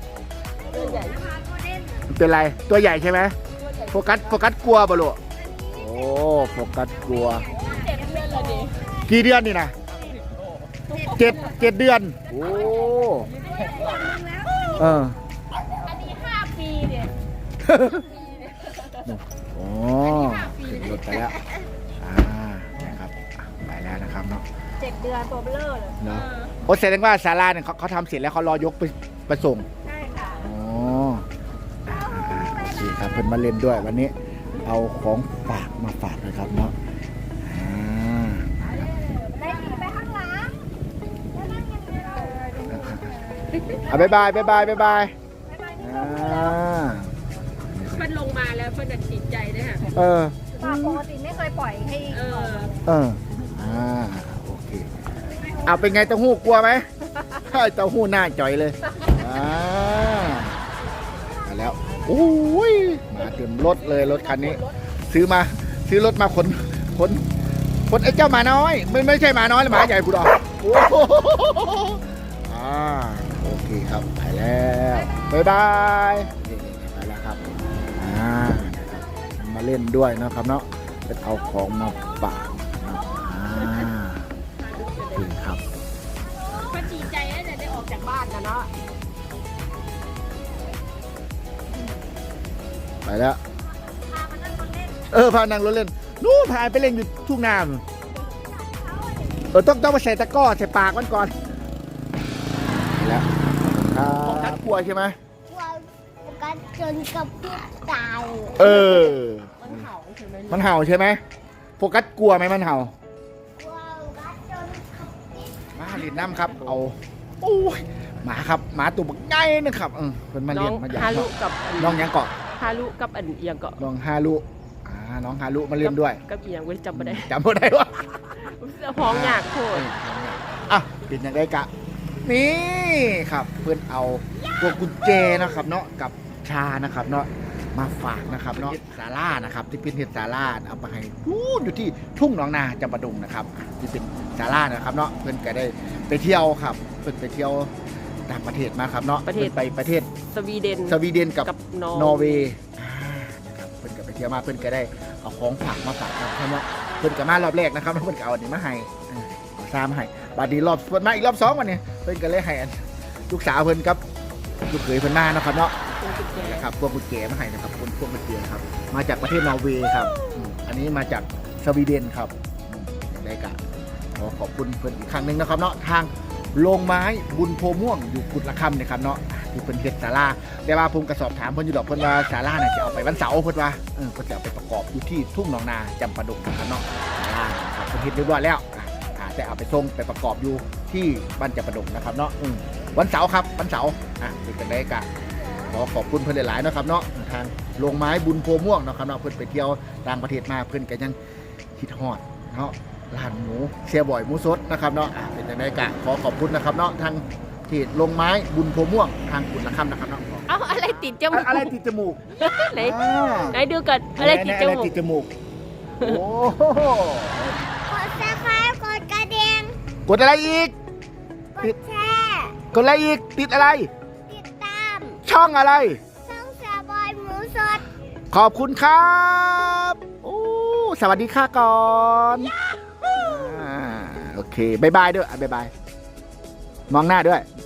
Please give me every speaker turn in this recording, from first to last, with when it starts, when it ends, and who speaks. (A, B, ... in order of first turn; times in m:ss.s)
0:00.6-0:02.1 A
0:00.7-0:01.2 B
0:02.1-0:03.4 C
0:03.6-0:04.1 B
0:03.9-0:05.2 C
0:05.4-0:09.1 A
0:05.7-0:07.5 C
0:07.5-0:08.8 B
0:09.0-0:09.7 C
0:10.9-0:11.5 A
0:10.9-0:11.3 B
0:11.0-0:13.3 C
0:12.3-0:12.8 B
0:13.3-0:15.1 A
0:14.8-0:15.2 C
0:15.8-0:17.1 B
0:17.6-0:18.1 C
0:18.0-0:19.0 B
0:19.0-0:21.4 C
0:20.0-0:21.2 B
0:22.0-0:24.4 C
0:24.8-0:26.0 A
0:26.0-0:29.7 C
0:26.1-0:26.5 B
0:29.9-0:30.4 A
0:30.4-0:31.2 C
0:31.9-0:36.7 C
0:31.9-0:32.7 A
0:37.4-0:38.9 C
0:38.8-0:39.6 B
0:39.4-0:40.6 A
0:41.3-0:42.6 A
0:42.7-0:43.1 C
0:43.5-0:43.8 B
0:43.8-0:44.9 A
0:43.8-0:45.1 C
0:45.5-0:46.6 A
0:45.8-0:47.1 C
0:47.6-0:48.1 C
0:47.9-0:49.9 B
0:49.9-0:51.0 C
0:50.5-0:52.8 A
0:52.1-0:52.7 B
0:52.8-0:54.9 C
0:55.3-0:56.0 A
0:55.6-1:00.6 C
1:01.4-1:07.3 C
1:03.9-1:04.7 B
1:07.9-1:17.4 C
1:18.0-1:24.3 C
1:22.9-1:23.7 A
1:24.6-1:25.3 B
1:25.1-1:25.6 C
1:26.2-1:26.8 A
1:26.6-1:28.7 B
1:33.0-1:33.4 C
1:34.0-1:35.1 A
1:35.1-1:37.8 C
1:38.4-1:39.4 D
1:39.5-1:41.4 C
1:42.7-1:45.2 C
1:44.2-1:44.6 B
1:45.5-1:49.2 D
1:48.6-1:49.9 C
1:49.6-1:50.7 B
1:50.5-1:51.2 C
1:51.8-1:52.9 C
1:53.6-1:56.4 D
1:55.8-2:02.3 C
2:00.5-2:03.8 B
2:03.8-2:06.2 C
2:05.8-2:07.3 B
2:06.9-2:11.7 C
2:08.4-2:09.9 B
2:12.2-2:27.7 C
2:28.3-2:30.1 C
2:29.2-2:29.6 B
2:30.3-2:32.5 B
2:30.8-2:44.0 C
2:44.7-2:53.6 C
2:45.9-2:46.7 B
2:54.1-3:21.2 C
3:21.8-3:30.5 C
3:30.5-3:31.7 B
3:31.3-3:33.6 C
3:32.4-3:34.9 B
3:34.2-3:35.3 C
3:36.0-3:37.6 C
3:37.8-3:39.8 D
3:40.1-3:40.7 C
3:41.5-3:42.6 D
3:42.7-3:43.9 C
3:44.3-3:45.2 D
3:45.2-3:46.0 C
3:46.2-3:47.8 D
3:48.3-3:52.5 C
3:53.1-3:55.7 C
3:56.9-3:57.4 C